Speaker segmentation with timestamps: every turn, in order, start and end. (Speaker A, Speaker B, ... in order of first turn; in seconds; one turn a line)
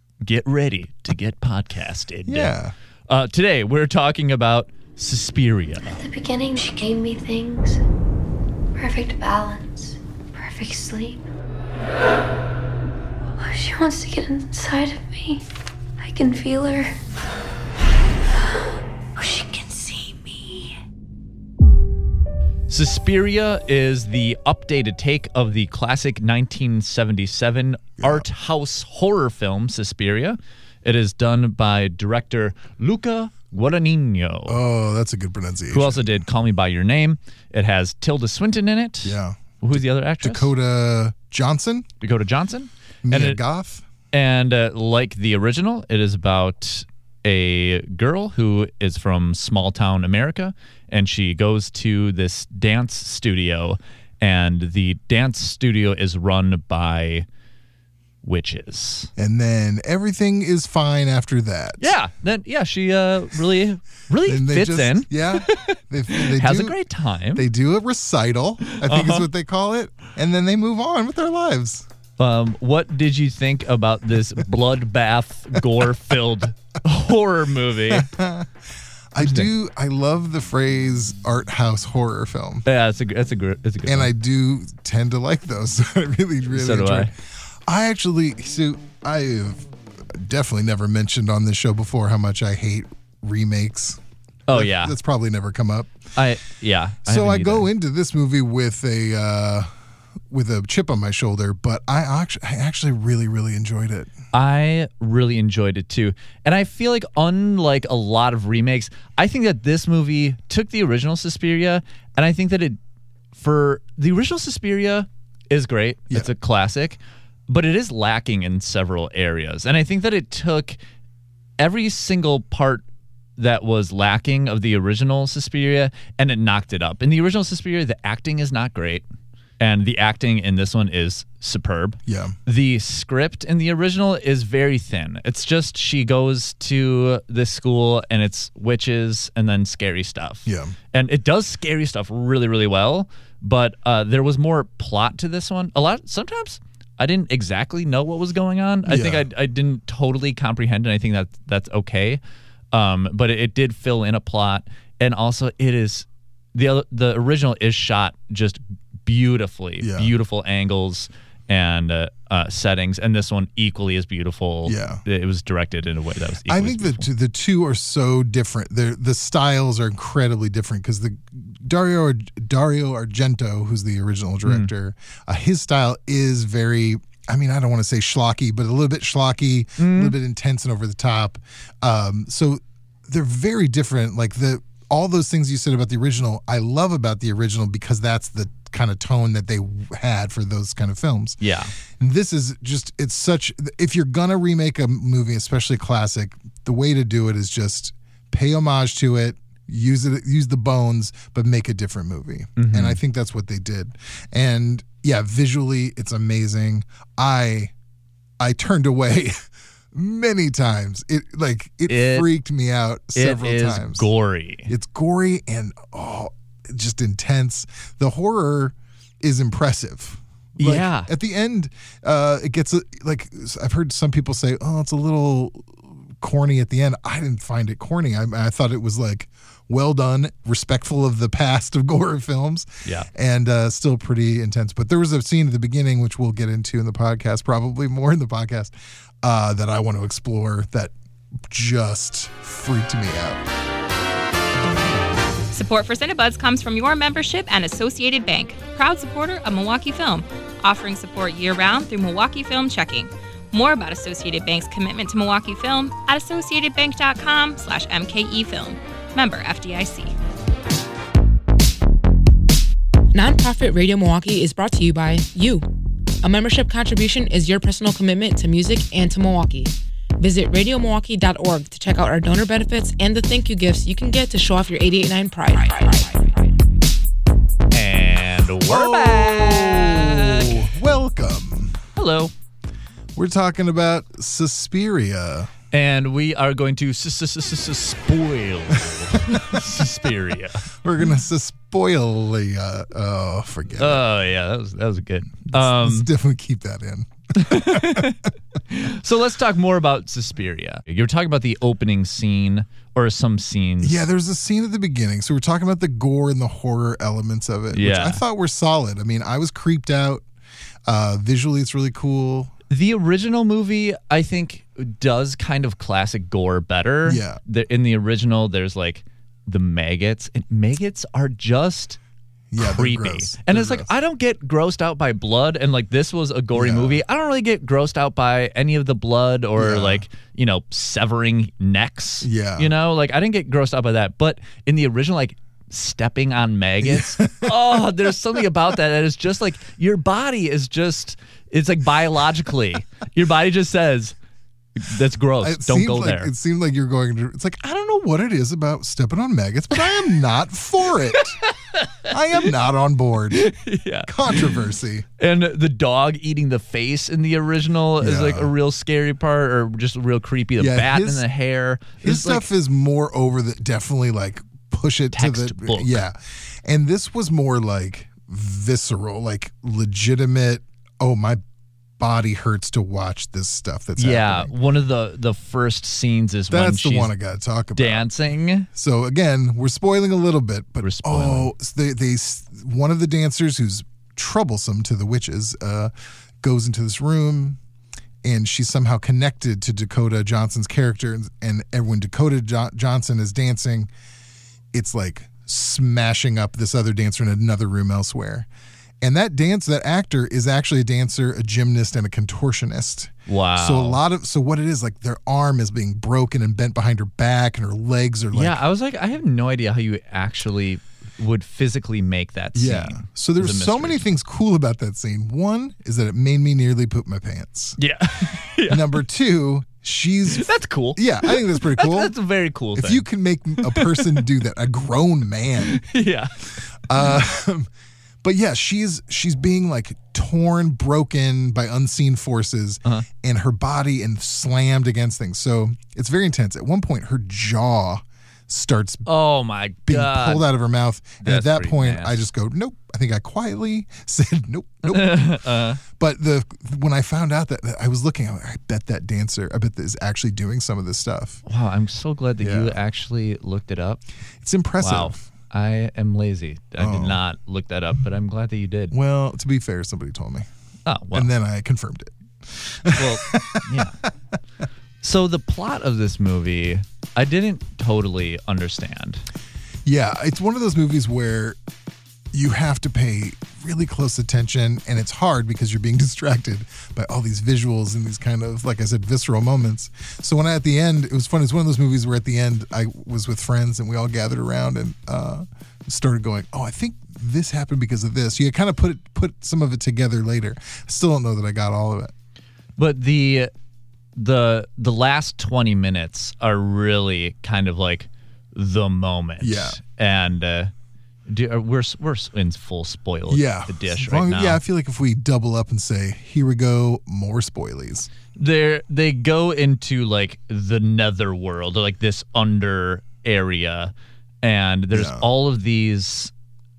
Speaker A: 0.2-2.5
Speaker B: 2.2-2.7
Speaker A: 3.1-6.0
Speaker C: 5.9-7.8
Speaker C: 8.8-11.2
Speaker C: 13.4-15.4
Speaker C: 16.0-16.9
Speaker C: 19.1-20.7
Speaker A: 22.7-34.6
Speaker B: 28.0-28.3
Speaker B: 34.5-36.2
Speaker A: 35.7-40.5
Speaker B: 39.0-39.4
Speaker B: 40.2-41.9
Speaker A: 42.0-43.4
Speaker B: 43.0-43.8
Speaker A: 44.1-57.2
Speaker A: 58.2-59.1
Speaker B: 59.2-62.0
Speaker A: 61.8-67.5
Speaker B: 64.2-66.8
Speaker B: 67.3-71.8
Speaker A: 68.7-69.3
Speaker A: 72.2-78.1
Speaker B: 77.9-78.5
Speaker B: 79.1-82.7
Speaker A: 79.2-79.5
Speaker A: 82.7-84.1
Speaker B: 83.8-95.9
Speaker A: 86.5-87.1
Speaker A: 94.5-95.0
Speaker A: 96.1-97.7
Speaker B: 97.0-99.7
Speaker B: 100.3-104.1
Speaker A: 104.3-112.8
Speaker A: 113.3-120.8
Speaker A: 121.6-122.8
Speaker A: 123.4-129.1
Speaker A: 129.6-152.2
Speaker B: 132.1-132.3
Speaker B: 140.4-140.7
Speaker B: 148.8-149.3
Speaker A: 152.7-167.1
Speaker B: 159.8-160.1
Speaker B: 164.7-165.0
Speaker B: 166.5-191.4
Speaker A: 174.4-174.7
Speaker A: 179.8-180.1
Speaker A: 191.4-191.7
Speaker B: 192.0-207.7
Speaker A: 202.6-203.0
Speaker B: 208.4-209.3
Speaker B: 209.9-214.1
Speaker A: 211.9-212.3
Speaker A: 213.1-214.7
Speaker B: 214.7-240.9
Speaker A: 220.6-221.1
Speaker B: 241.5-243.4
Speaker D: 245.5-260.1
Speaker E: 263.1-265.6
Speaker E: 266.2-276.1
Speaker A: 277.7-280.6
Speaker B: 278.7-281.8
Speaker A: 281.9-282.3
Speaker B: 283.1-285.5
Speaker A: 285.7-290.7
Speaker B: 290.8-294.0
Speaker A: 293.8-296.1
Speaker B: 295.5-298.1
Speaker A: 297.3-304.0
Speaker B: 303.8-310.2
Speaker A: 307.7-308.2
Speaker B: 310.9-312.5
Speaker A: 312.7-322.0
Speaker B: 317.0-317.4
Speaker B: 322.5-323.9
Speaker A: 322.6-344.1
Speaker B: 326.5-327.0
Speaker B: 329.6-330.0
Speaker B: 332.2-332.7
Speaker B: 336.8-337.9
Speaker A: 344.8-346.3
Speaker B: 345.4-351.4
Speaker A: 351.4-352.1
Speaker B: 352.1-353.5
Speaker A: 353.4-354.5
Speaker B: 354.0-355.0
Speaker A: 355.2-362.5
Speaker B: 358.0-358.5
Speaker B: 360.6-361.2
Speaker B: 362.0-371.4
Speaker A: 365.1-366.0
Speaker B: 372.0-374.5
Speaker A: 374.0-377.1
Speaker B: 376.5-378.1
Speaker A: 377.8-378.7
Speaker B: 378.7-387.6
Speaker A: 380.8-381.5
Speaker B: 388.2-393.9
Speaker B: 394.7-398.5
Speaker B: 399.0-408.6
Speaker A: 403.3-404.0
Speaker A: 408.3-414.1
Speaker B: 412.5-417.8
Speaker A: 417.8-418.8
Speaker B: 418.6-422.1
Speaker A: 420.3-423.0
Speaker B: 422.7-425.8
Speaker A: 423.6-424.2
Speaker A: 425.6-426.4
Speaker B: 426.9-427.7
Speaker B: 428.2-439.1
Speaker A: 439.1-440.4
Speaker B: 439.9-451.4
Speaker A: 441.2-442.3
Speaker A: 444.9-445.8
Speaker A: 451.4-454.0
Speaker B: 452.4-452.8
Speaker B: 454.4-455.2
Speaker A: 454.8-458.9
Speaker B: 456.8-457.2
Speaker B: 458.9-460.5
Speaker A: 460.9-461.3
Speaker B: 461.1-464.1
Speaker A: 462.9-464.0
Speaker A: 465.0-469.2
Speaker B: 469.8-471.6
Speaker B: 472.3-492.1
Speaker A: 492.8-493.5
Speaker A: 494.1-500.7
Speaker B: 499.4-499.8
Speaker A: 501.3-504.6
Speaker B: 503.3-508.1
Speaker A: 508.3-516.3
Speaker B: 514.9-515.3